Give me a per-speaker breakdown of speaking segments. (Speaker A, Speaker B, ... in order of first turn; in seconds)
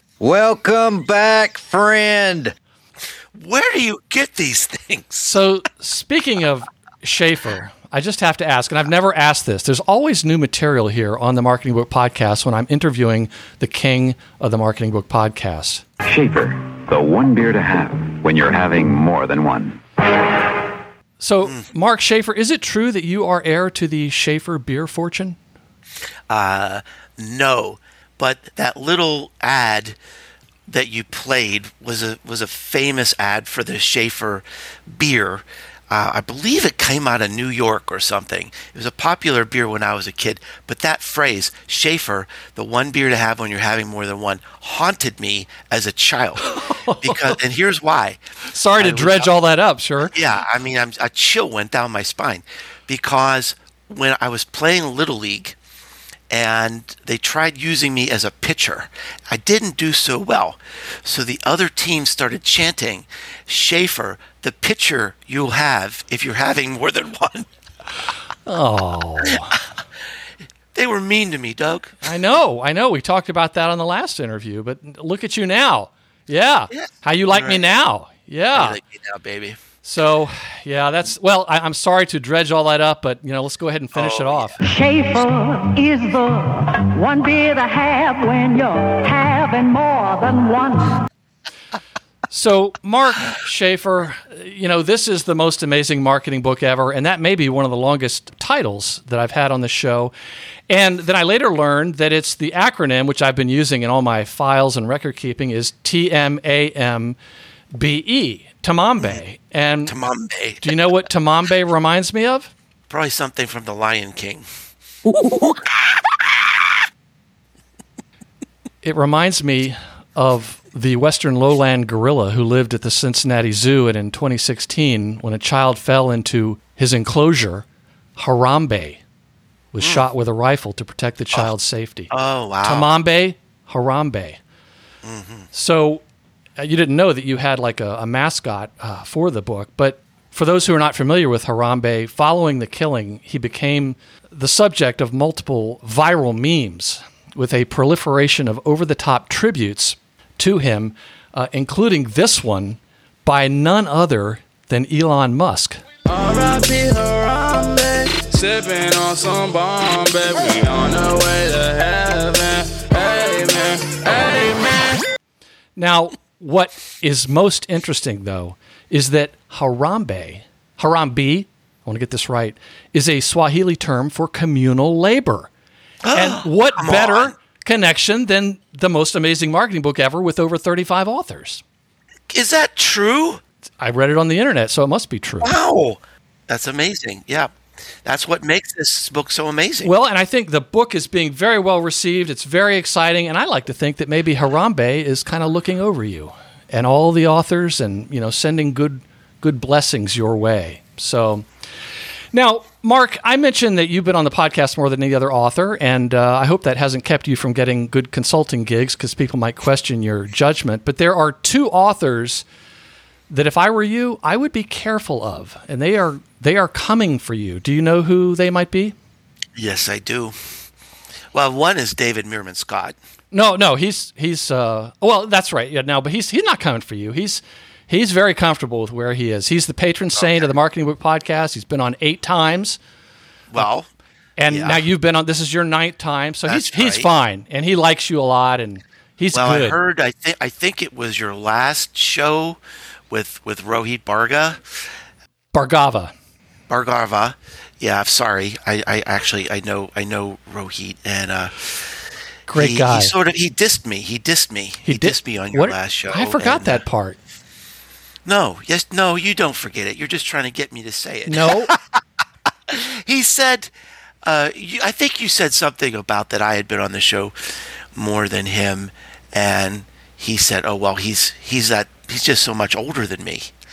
Speaker A: 0.2-2.5
Speaker B: 3.4-5.3, 26.3-30.0, 30.7-48.2, 48.8-49.3, 50.1-55.6, 56.3-67.5, 70.7-72.0, 76.7-77.6, 78.5-79.6, 84.0-84.5, 109.9-110.7, 112.9-114.5, 129.8-130.1, 132.1-132.9, 135.1-135.5, 176.0-177.3, 182.3-183.4, 185.4-187.5, 188.1-189.9, 219.6-220.4, 221.3-223.0, 233.5-233.9, 234.5-234.8, 236.5-237.1, 239.3-242.6, 243.1-244.6, 246.7-251.6, 252.6-256.8, 258.3-262.0, 262.7-263.7, 264.2-267.4, 267.9-273.5
Speaker C: 5.2-15.8, 21.2-25.4, 46.5-47.4, 48.5-50.1, 68.5-69.6, 72.0-78.8, 79.8-84.6, 92.3-100.1, 100.7-107.2, 107.7-110.0, 110.6-112.5, 118.8-127.7, 128.2-129.0, 129.7-132.1, 132.6-134.4, 135.5-136.0, 136.6-155.8, 165.8-175.5, 176.1-181.6, 183.8-185.5, 189.8-201.5, 202.3-212.4, 213.3-218.9, 223.3-232.8, 234.4-239.8, 245.5-246.1, 252.5-253.1, 254.8-257.2, 261.3-261.7
Speaker D: 16.0-19.8
Speaker E: 84.6-91.0
Speaker F: 156.1-165.0